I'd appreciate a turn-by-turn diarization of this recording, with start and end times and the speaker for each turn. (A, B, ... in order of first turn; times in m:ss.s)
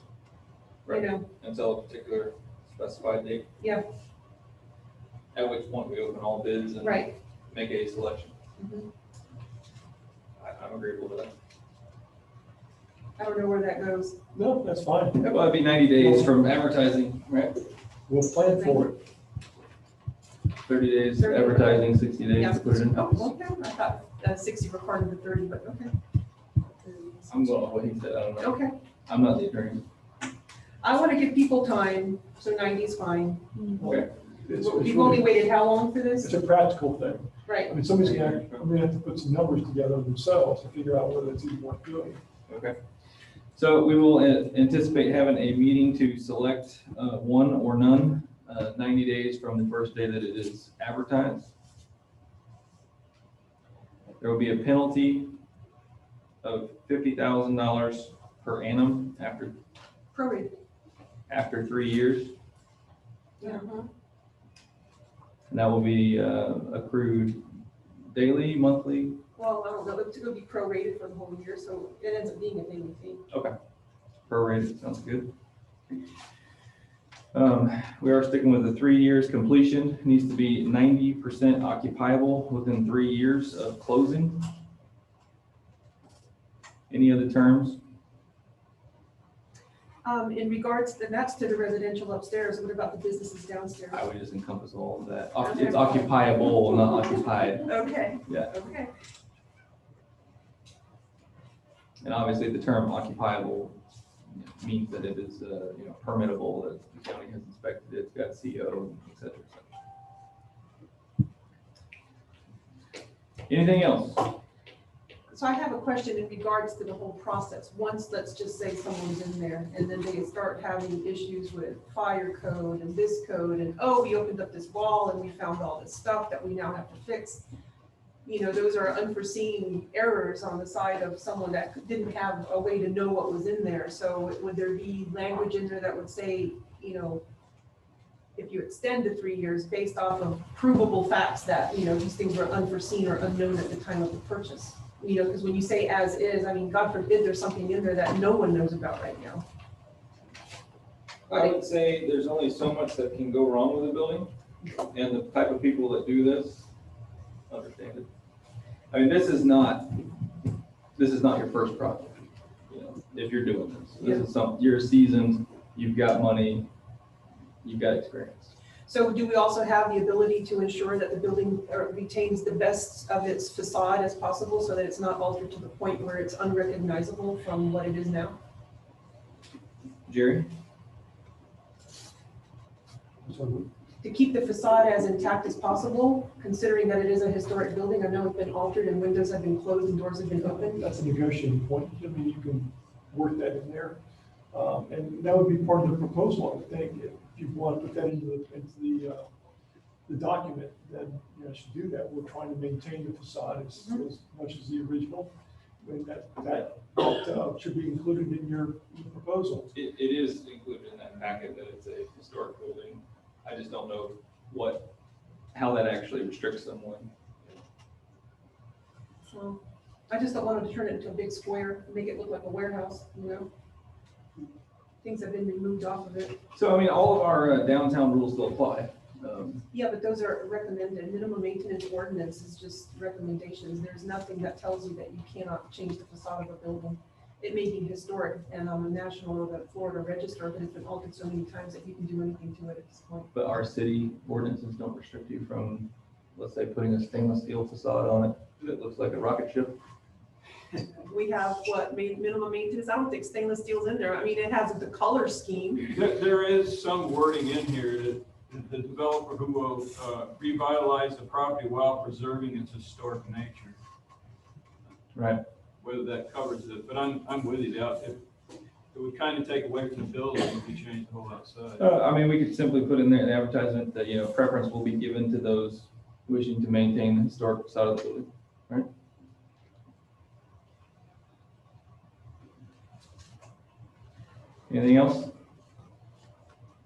0:00.8-0:03.5 A
0:00.9-0:01.2 B
0:05.4-0:08.4 A
0:06.8-0:07.1 B
0:08.6-0:08.9 B
0:10.4-0:11.3 A
0:13.2-0:14.2 B
0:14.3-0:15.3 C
0:15.2-0:17.6 A
0:15.9-0:16.4 C
0:18.1-0:19.0 C
0:18.6-0:18.9 B
0:20.7-0:23.3 A
0:21.2-0:25.9 B
0:26.8-0:27.3 B
0:27.3-0:29.8 A
0:28.4-0:28.7 B
0:30.8-0:34.0 B
0:33.8-0:35.4 C
0:34.5-0:36.4 B
0:36.2-0:42.2 C
0:37.5-0:37.8 B
0:37.8-0:38.7 A
0:42.5-0:42.8 A
0:43.6-0:51.5 A
0:54.2-0:55.4 A
0:56.4-0:59.6 A
1:00.1-1:00.6 B
1:01.3-1:02.3 A
1:03.4-1:03.7 B
1:05.5-1:07.5 A
1:08.1-1:09.2 A
1:09.4-1:13.3 B
1:14.3-1:15.3 A
1:17.3-1:24.5 A
1:26.9-1:27.8 A
1:30.0-1:34.0 B
1:33.9-1:38.5 A
1:35.4-1:36.2 B
1:37.6-1:38.9 B
1:42.0-1:43.8 A
1:44.3-1:49.7 A
1:53.5-1:54.4 A
1:55.3-2:07.5 B
2:08.2-2:17.2 B
2:18.4-2:29.4 B
2:31.3-2:34.3 A
2:31.3-2:31.6 B
2:34.9-2:36.7 A
2:37.5-2:38.1 A
2:38.9-2:40.1 A
2:41.0-2:42.2 A
2:42.7-2:46.7 A
2:44.0-2:44.2 B
2:47.6-2:48.5 A
2:48.9-2:58.4 B
3:00.1-3:00.5 A
3:03.2-3:03.7 C
3:04.0-3:10.8 B
3:10.4-3:14.0 C
3:14.5-3:19.3 C
3:20.1-3:29.7 C
3:29.7-3:34.9 A
3:35.5-3:37.1 A
3:39.3-3:43.5 B
3:45.0-3:46.4 B
3:46.5-3:49.6 A
3:49.7-4:03.3 B
4:03.3-4:09.8 A
4:10.9-4:15.9 B
4:15.9-4:23.8 D
4:25.2-4:25.4 A
4:25.8-4:28.2 D
4:28.9-4:31.9 D
4:31.8-4:38.9 A
4:44.7-4:45.3 A